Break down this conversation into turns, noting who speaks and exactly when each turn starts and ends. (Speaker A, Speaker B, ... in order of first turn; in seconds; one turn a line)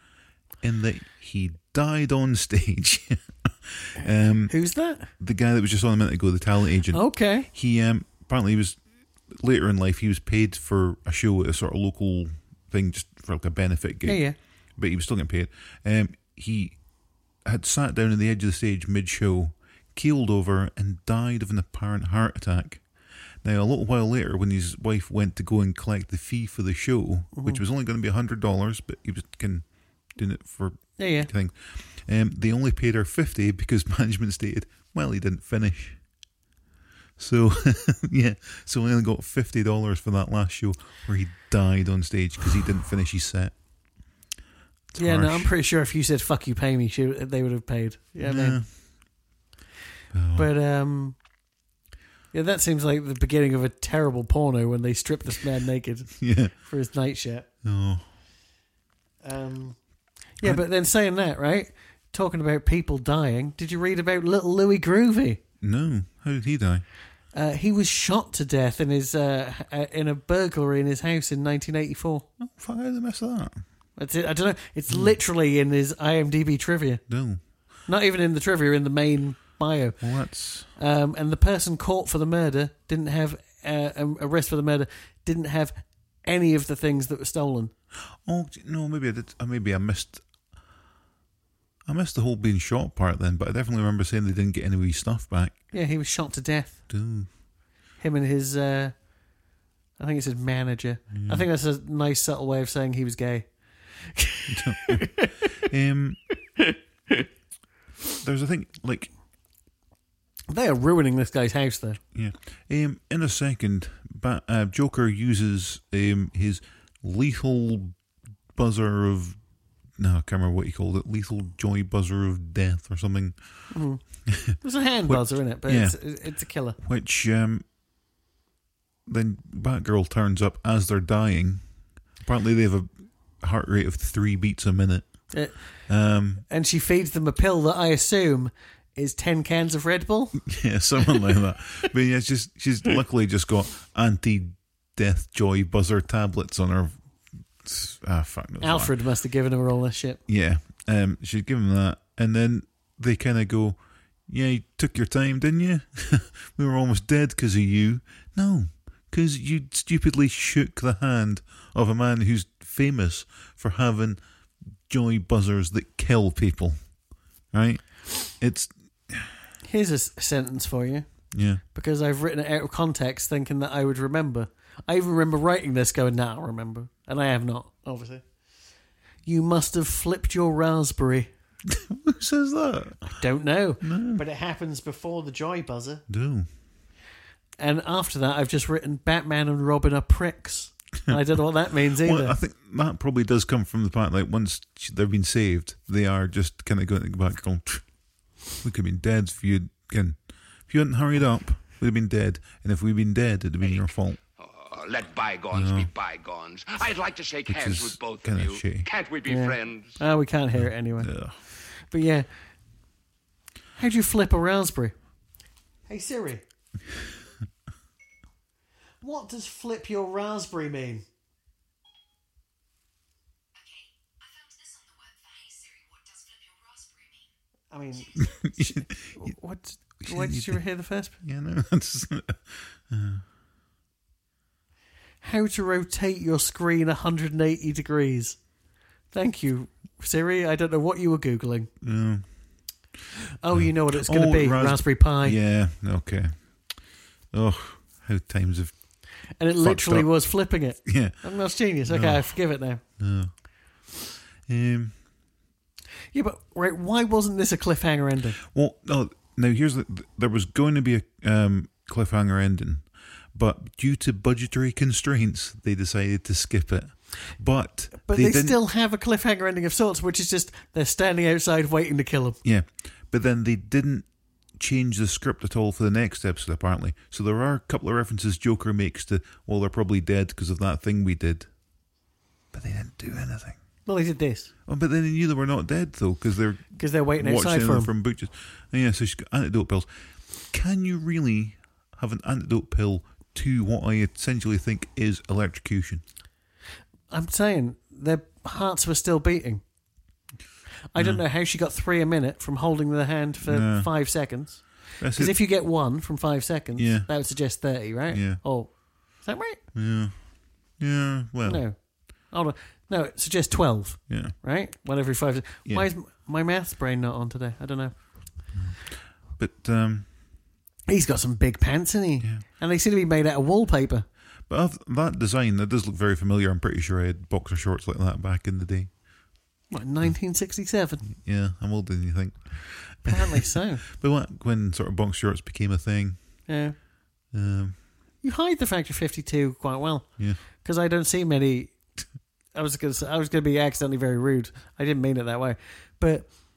Speaker A: 0.6-4.5
Speaker B: 4.5-5.1
Speaker A: 5.2-16.8
Speaker B: 6.9-7.5
Speaker B: 14.0-14.3
Speaker A: 17.4-22.8
Speaker A: 23.4-36.0
Speaker B: 27.3-27.6
Speaker B: 31.0-31.3
Speaker A: 37.2-43.5
Speaker A: 44.9-45.5
Speaker B: 45.0-48.6
Speaker A: 48.2-48.7
Speaker A: 50.1-50.5
Speaker B: 50.3-51.2
Speaker B: 52.3-57.5
Speaker A: 56.2-56.5
Speaker A: 57.6-58.1
Speaker B: 59.2-59.8
Speaker B: 60.4-65.4
Speaker A: 65.6-66.8
Speaker B: 67.3-72.3
Speaker A: 72.4-73.6
Speaker B: 74.0-77.0
Speaker A: 74.9-75.1
Speaker A: 77.1-77.4
Speaker B: 77.8-80.1
Speaker A: 80.0-80.7
Speaker B: 80.6-87.7
Speaker A: 88.2-90.2
Speaker A: 91.8-95.6
Speaker B: 95.7-96.8
Speaker A: 96.9-97.3
Speaker B: 98.0-98.9
Speaker B: 100.0-105.5
Speaker A: 101.1-101.5
Speaker A: 104.5-106.2
Speaker B: 106.6-107.2
Speaker A: 108.2-109.1
Speaker B: 110.5-112.0
Speaker A: 112.1-118.0
Speaker A: 118.5-119.4
Speaker A: 120.0-123.7
Speaker B: 123.7-126.8
Speaker A: 124.2-126.0
Speaker A: 126.8-127.7
Speaker A: 129.1-131.6
Speaker A: 132.2-136.4
Speaker B: 135.3-135.9
Speaker B: 136.5-140.5
Speaker A: 140.4-147.0
Speaker A: 147.6-148.9
Speaker B: 148.6-150.2
Speaker A: 150.3-164.2
Speaker A: 164.9-166.8
Speaker A: 167.5-169.3
Speaker B: 169.6-171.1
Speaker A: 171.3-171.6
Speaker B: 171.6-178.2
Speaker B: 179.2-181.3
Speaker A: 181.7-183.2
Speaker B: 183.1-186.0
Speaker A: 183.8-184.2
Speaker A: 186.1-186.5
Speaker B: 187.6-192.4
Speaker A: 191.9-197.8
Speaker A: 198.5-204.2
Speaker C: 204.4-210.0
Speaker A: 205.5-205.9
Speaker A: 207.4-208.9
Speaker B: 209.2-212.3
Speaker A: 210.6-211.4
Speaker B: 213.8-214.9
Speaker B: 215.9-216.4
Speaker B: 219.0-221.0
Speaker D: 223.5-227.3
Speaker B: 227.7-231.2
Speaker D: 228.0-228.4
Speaker A: 228.2-229.3
Speaker A: 230.0-230.6
Speaker A: 231.2-233.2
Speaker B: 235.2-238.4
Speaker B: 239.1-241.7
Speaker A: 241.8-242.3
Speaker B: 243.4-245.4
Speaker A: 243.5-246.7
Speaker A: 247.3-248.8
Speaker B: 249.4-252.8
Speaker A: 249.6-250.1
Speaker A: 250.8-251.2
Speaker A: 251.8-252.2
Speaker A: 253.0-253.3
Speaker A: 254.4-254.9
Speaker B: 256.1-258.4
Speaker A: 258.4-268.6
Speaker B: 268.0-272.4
Speaker A: 272.4-281.5
Speaker A: 282.5-283.6
Speaker B: 283.9-284.5
Speaker A: 284.7-289.9
Speaker B: 286.8-287.9
Speaker A: 290.4-296.0
Speaker B: 297.1-299.6
Speaker B: 300.9-309.6
Speaker A: 301.0-301.2
Speaker A: 303.4-303.9
Speaker A: 305.0-305.3
Speaker A: 306.8-307.1
Speaker A: 308.1-308.4
Speaker A: 309.7-311.6
Speaker B: 311.4-318.0
Speaker A: 314.1-314.3
Speaker A: 318.5-320.1
Speaker B: 320.9-324.1
Speaker A: 324.5-328.9
Speaker B: 329.7-331.0
Speaker A: 331.0-336.2
Speaker B: 333.1-333.8
Speaker B: 336.5-336.8
Speaker A: 337.3-337.8
Speaker B: 338.2-341.7
Speaker B: 342.5-346.3